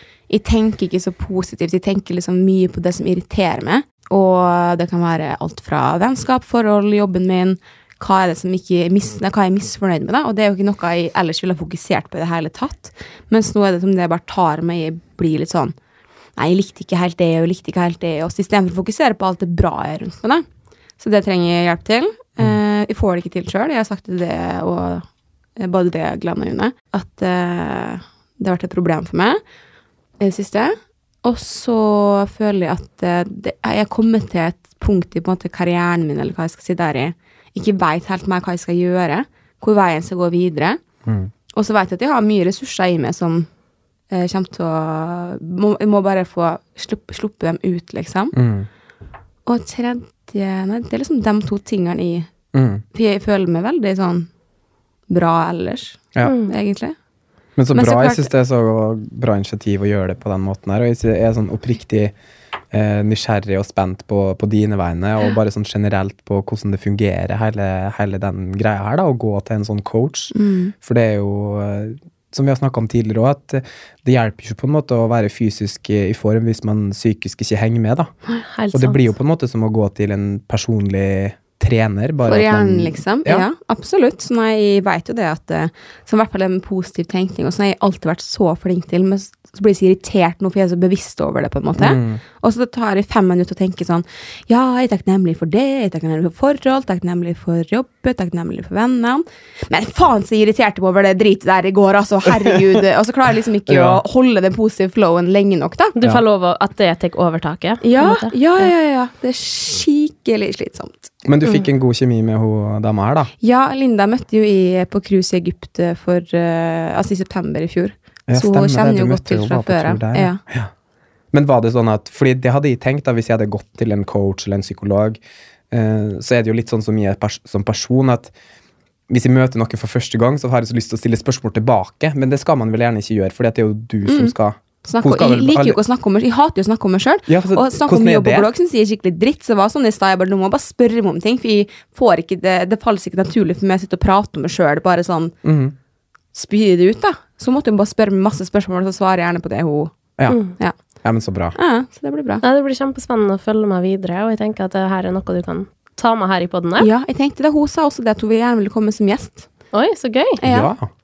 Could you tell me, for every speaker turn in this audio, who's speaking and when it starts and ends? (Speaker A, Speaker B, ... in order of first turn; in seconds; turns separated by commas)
Speaker A: 0.3-15.7, Speaker A: 16.4-20.4, Speaker A: 21.0-25.1, Speaker A: 25.6-29.4, Speaker A: 30.2-40.8, Speaker B: 41.1-41.3, Speaker A: 41.5-43.5, Speaker A: 44.1-48.3, Speaker B: 48.3-48.7, Speaker A: 49.5-52.3, Speaker B: 52.5-52.8, Speaker A: 52.9-54.3, Speaker A: 55.1-57.0, Speaker C: 56.2-56.5, Speaker B: 57.6-62.1, Speaker A: 57.7-58.3, Speaker B: 62.7-78.1, Speaker A: 70.3-70.7, Speaker C: 78.5-79.1, Speaker B: 78.7-83.5, Speaker A: 82.3-106.0, Speaker B: 91.8-92.2, Speaker B: 103.7-104.0, Speaker C: 106.0-108.7, Speaker A: 107.8-111.1, Speaker B: 111.2-113.3, Speaker A: 113.4-120.4, Speaker B: 118.3-120.7, Speaker B: 121.3-125.2, Speaker B: 125.7-128.3, Speaker B: 129.1-135.8, Speaker A: 134.1-134.3, Speaker A: 134.8-145.4, Speaker B: 137.3-138.5, Speaker B: 145.4-145.8, Speaker A: 146.3-149.9, Speaker C: 150.3-150.6, Speaker B: 151.0-151.6, Speaker A: 151.6-152.4, Speaker C: 152.4-156.9, Speaker A: 156.8-159.5, Speaker C: 159.7-160.4, Speaker A: 160.4-160.7, Speaker B: 160.4-160.9